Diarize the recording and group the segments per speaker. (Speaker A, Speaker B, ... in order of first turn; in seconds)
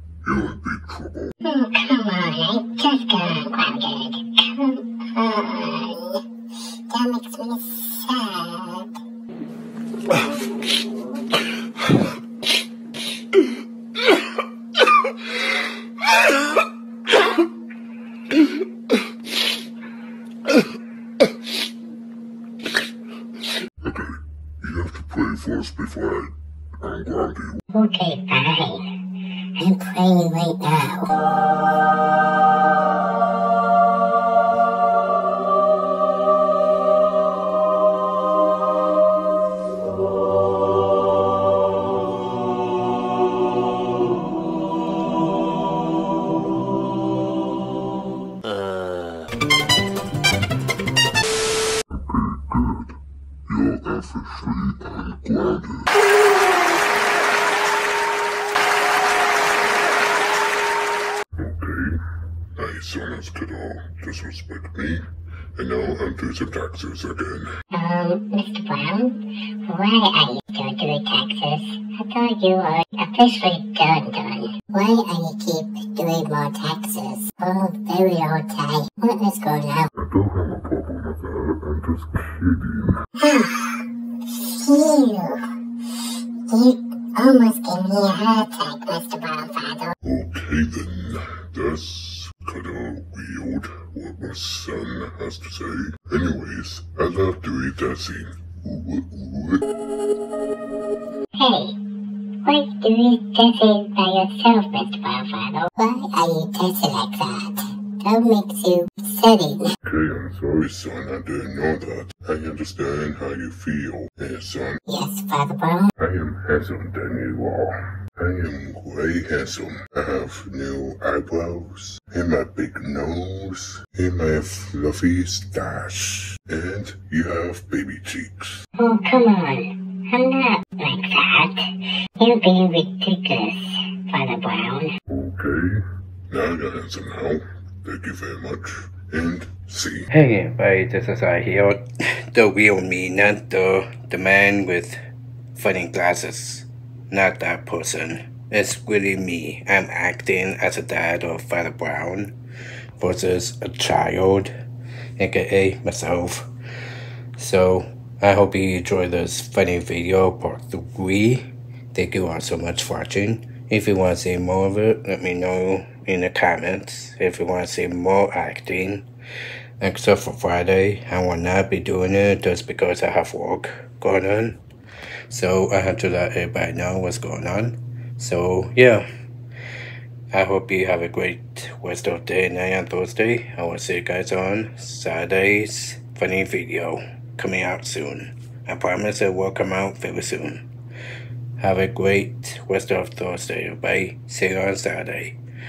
Speaker A: 0.2-1.3, 23.8-27.6, 51.9-55.9, 61.4-62.0, 62.5-67.5, 80.0-83.0, 90.0-99.7, 109.8-114.8, 116.0-128.7, 135.1-140.1
Speaker B: 1.4-6.2, 6.9-8.9, 27.7-29.0, 29.6-31.1, 67.7-79.9, 83.2-85.5, 86.5-89.9, 101.3-101.8, 102.4-109.8, 114.9-115.9, 128.8-135.0
Speaker C: 140.1-145.0, 145.6-152.3, 153.0-154.5, 155.2-156.5, 157.4-169.1, 169.8-174.6, 175.3-179.1, 180.3-190.7, 191.6-195.4